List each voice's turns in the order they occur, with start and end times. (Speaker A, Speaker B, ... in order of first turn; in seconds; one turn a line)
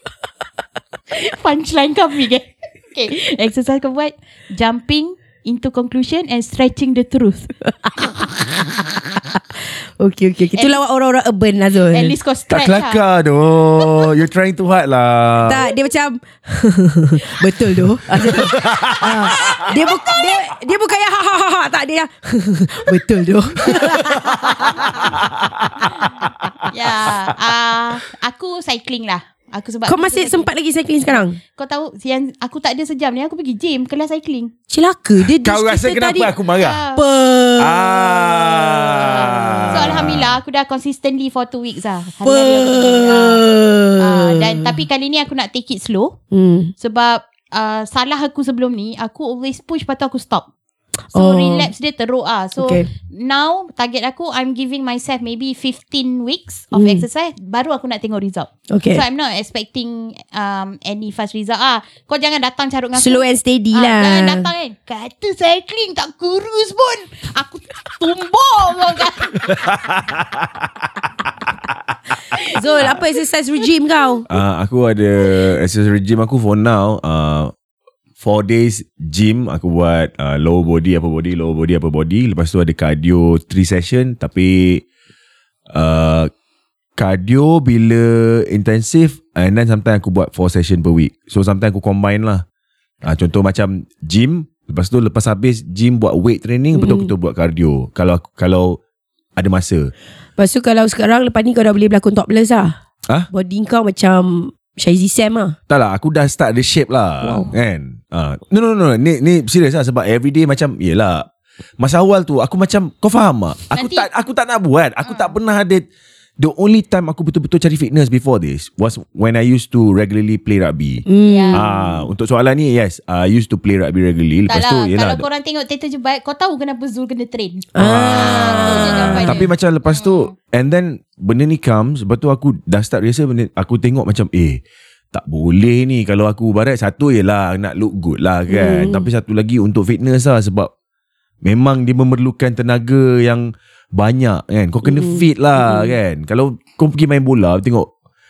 Speaker A: 1.1-7.5
Speaker B: 7.6-12.2
Speaker A: 10.5-10.8
Speaker A: 11.9-13.0
Speaker C: 12.5-15.7
Speaker A: 13.8-14.1
Speaker B: 15.4-25.1
Speaker C: 18.1-19.9
Speaker C: 23.7-26.7
Speaker A: 24.4-24.7
Speaker A: 26.7-30.5
Speaker B: 29.9-31.4
Speaker A: 31.0-34.5
Speaker B: 34.7-36.3
Speaker C: 35.2-36.8
Speaker A: 36.5-37.0
Speaker B: 36.9-38.2
Speaker C: 37.6-40.4
Speaker A: 38.8-46.1
Speaker B: 42.2-44.8
Speaker B: 46.3-46.7
Speaker A: 46.8-50.5
Speaker B: 51.1-51.7
Speaker A: 51.1-69.7
Speaker B: 52.6-52.9
Speaker B: 56.7-57.0
Speaker B: 58.7-59.0
Speaker B: 63.0-64.5
Speaker C: 69.4-71.7
Speaker A: 72.3-73.1
Speaker B: 72.5-74.2
Speaker C: 74.3-77.5
Speaker C: 78.2-84.8
Speaker C: 85.7-86.3
Speaker C: 87.0-92.4
Speaker C: 93.0-98.8
Speaker B: 96.7-97.1
Speaker C: 99.3-99.9
Speaker B: 100.4-102.8
Speaker B: 103.3-105.5
Speaker C: 105.7-111.3
Speaker B: 107.2-107.5
Speaker C: 111.8-115.9
Speaker A: 113.7-114.1
Speaker A: 115.0-115.3
Speaker C: 116.4-125.2
Speaker B: 121.1-121.9
Speaker A: 121.2-121.7
Speaker A: 124.5-130.3
Speaker B: 127.7-129.4
Speaker C: 127.8-134.6
Speaker C: 135.1-140.7
Speaker B: 138.5-139.1
Speaker C: 141.4-147.9
Speaker B: 144.8-145.9